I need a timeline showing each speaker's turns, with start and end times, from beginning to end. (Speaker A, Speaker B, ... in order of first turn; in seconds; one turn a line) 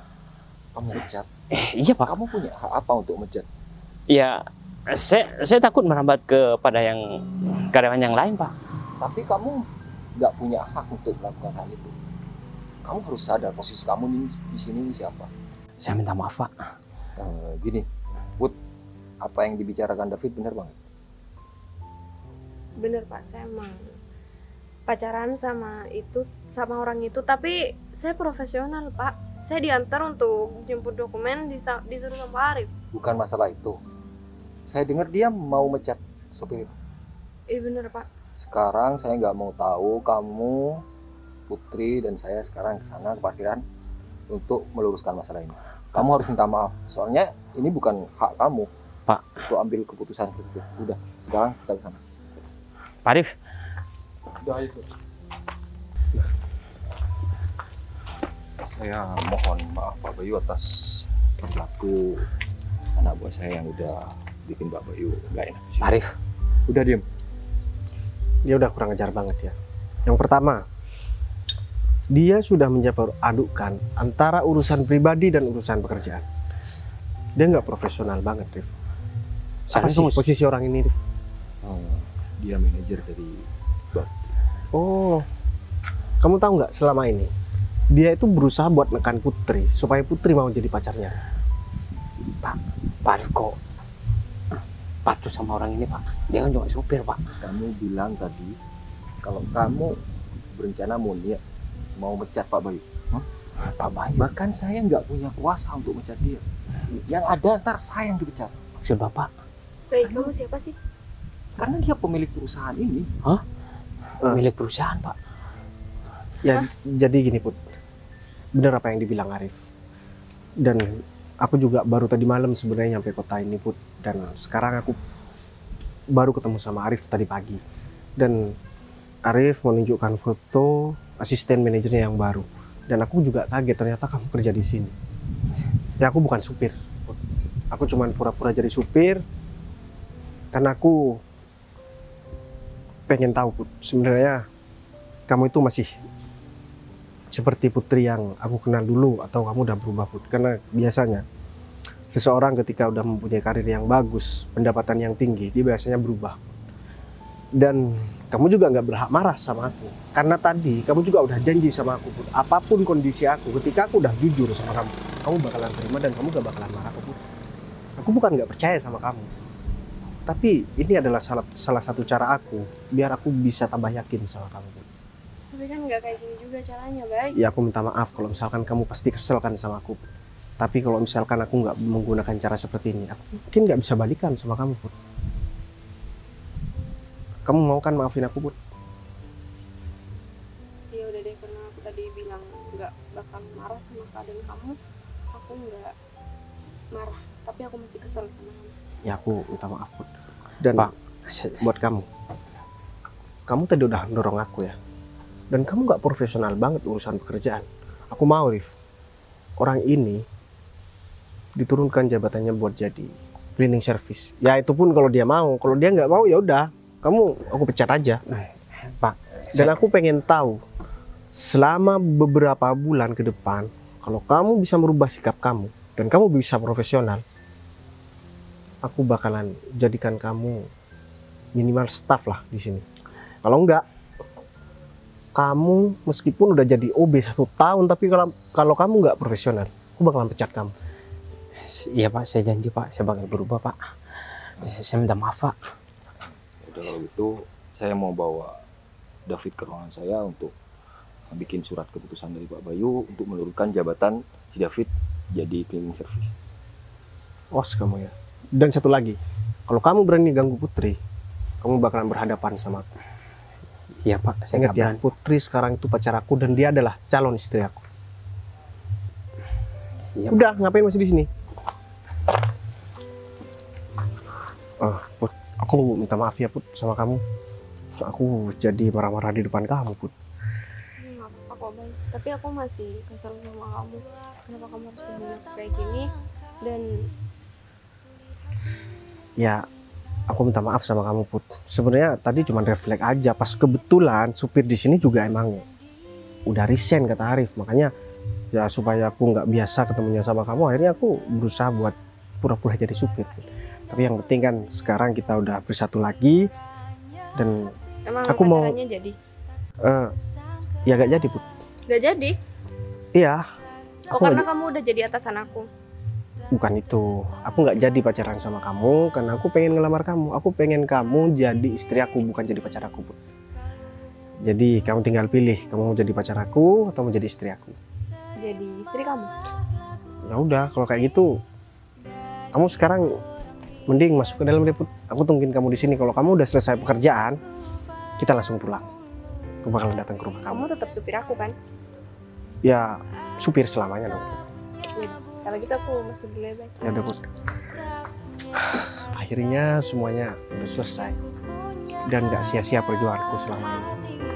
Speaker A: 0.8-1.3
Speaker B: 1.5-2.1
Speaker A: 2.0-3.5
Speaker B: 4.1-8.5
Speaker A: 9.0-9.7
Speaker A: 10.2-11.9
Speaker A: 12.8-15.3
Speaker B: 15.8-16.7
Speaker A: 17.2-17.9
Speaker A: 19.2-20.8
Speaker C: 22.8-23.8
Speaker C: 24.9-32.7
Speaker A: 32.9-33.8
Speaker A: 34.7-36.7
Speaker C: 37.5-38.1
Speaker A: 38.4-40.8
Speaker A: 41.5-43.6
Speaker A: 44.3-48.7
Speaker B: 49.1-49.4
Speaker A: 49.5-52.0
Speaker B: 53.0-53.3
Speaker A: 54.4-54.9
Speaker A: 58.7-62.3
Speaker A: 63.0-65.9
Speaker B: 65.8-66.1
Speaker A: 66.7-67.0
Speaker D: 68.5-70.6
Speaker D: 72.1-76.3
Speaker D: 77.4-78.7
Speaker B: 79.7-80.2
Speaker D: 79.7-81.0
Speaker A: 81.6-84.3
Speaker D: 84.7-85.3
Speaker D: 86.2-87.3
Speaker D: 87.9-91.2
Speaker B: 92.4-93.6
Speaker B: 95.0-97.2
Speaker A: 97.4-98.5
Speaker A: 99.2-100.0
Speaker A: 100.5-101.4
Speaker A: 102.0-103.3
Speaker B: 103.6-104.3
Speaker A: 104.2-106.4
Speaker A: 107.0-108.6
Speaker B: 108.8-109.3
Speaker C: 109.9-110.8
Speaker A: 110.0-110.3
Speaker A: 111.6-113.1
Speaker B: 114.2-115.2
Speaker D: 116.4-117.6
Speaker D: 118.5-119.6
Speaker D: 120.6-125.0
Speaker D: 126.1-127.6
Speaker D: 128.2-128.6
Speaker D: 129.3-134.9
Speaker D: 136.0-136.8
Speaker D: 137.7-139.2
Speaker D: 140.5-141.2
Speaker D: 143.1-144.4
Speaker D: 145.3-145.9
Speaker D: 147.3-151.2
Speaker D: 152.1-156.5
Speaker D: 157.6-167.2
Speaker D: 168.0-169.3
Speaker D: 170.3-174.9
Speaker C: 175.5-177.4
Speaker D: 177.4-180.0
Speaker D: 180.6-184.9
Speaker D: 187.4-188.6
Speaker C: 190.9-194.8
Speaker C: 195.3-195.9
Speaker C: 196.9-198.7
Speaker D: 199.1-200.9
Speaker B: 200.7-201.6
Speaker D: 201.6-202.1
Speaker D: 203.5-204.8
Speaker D: 205.5-208.7
Speaker D: 209.6-210.2
Speaker D: 211.6-218.2
Speaker B: 218.3-219.8
Speaker D: 219.5-220.6
Speaker D: 221.4-227.2
Speaker D: 228.8-230.7
Speaker D: 231.6-232.8
Speaker D: 233.4-233.8
Speaker D: 235.3-240.7
Speaker B: 241.6-243.8
Speaker B: 244.6-245.6
Speaker A: 246.6-248.6
Speaker A: 249.3-250.5
Speaker A: 251.3-256.3
Speaker D: 257.5-261.0
Speaker D: 261.6-262.9
Speaker B: 264.0-265.0
Speaker D: 264.5-267.8
Speaker B: 270.2-270.5
Speaker D: 270.3-271.3
Speaker D: 274.8-277.2
Speaker D: 278.0-280.1
Speaker C: 281.0-286.1
Speaker C: 286.6-286.9
Speaker D: 289.4-289.7
Speaker D: 290.3-295.7
Speaker D: 296.5-297.9
Speaker D: 298.5-306.5
Speaker D: 307.4-307.7
Speaker C: 308.1-309.2
Speaker D: 308.3-308.8
Speaker D: 309.8-310.1
Speaker D: 310.9-311.5
Speaker C: 311.9-312.4
Speaker D: 313.1-313.4
Speaker D: 314.1-314.5
Speaker C: 314.1-315.7
Speaker D: 316.5-323.2
Speaker D: 324.4-327.8
Speaker C: 328.4-329.4
Speaker D: 330.3-331.4
Speaker D: 332.5-333.2
Speaker D: 333.9-337.4
Speaker D: 338.2-338.9
Speaker D: 339.6-340.7
Speaker C: 340.5-341.6
Speaker D: 342.6-344.5
Speaker C: 345.0-346.8
Speaker D: 346.8-347.3
Speaker D: 349.2-351.2
Speaker D: 352.1-354.1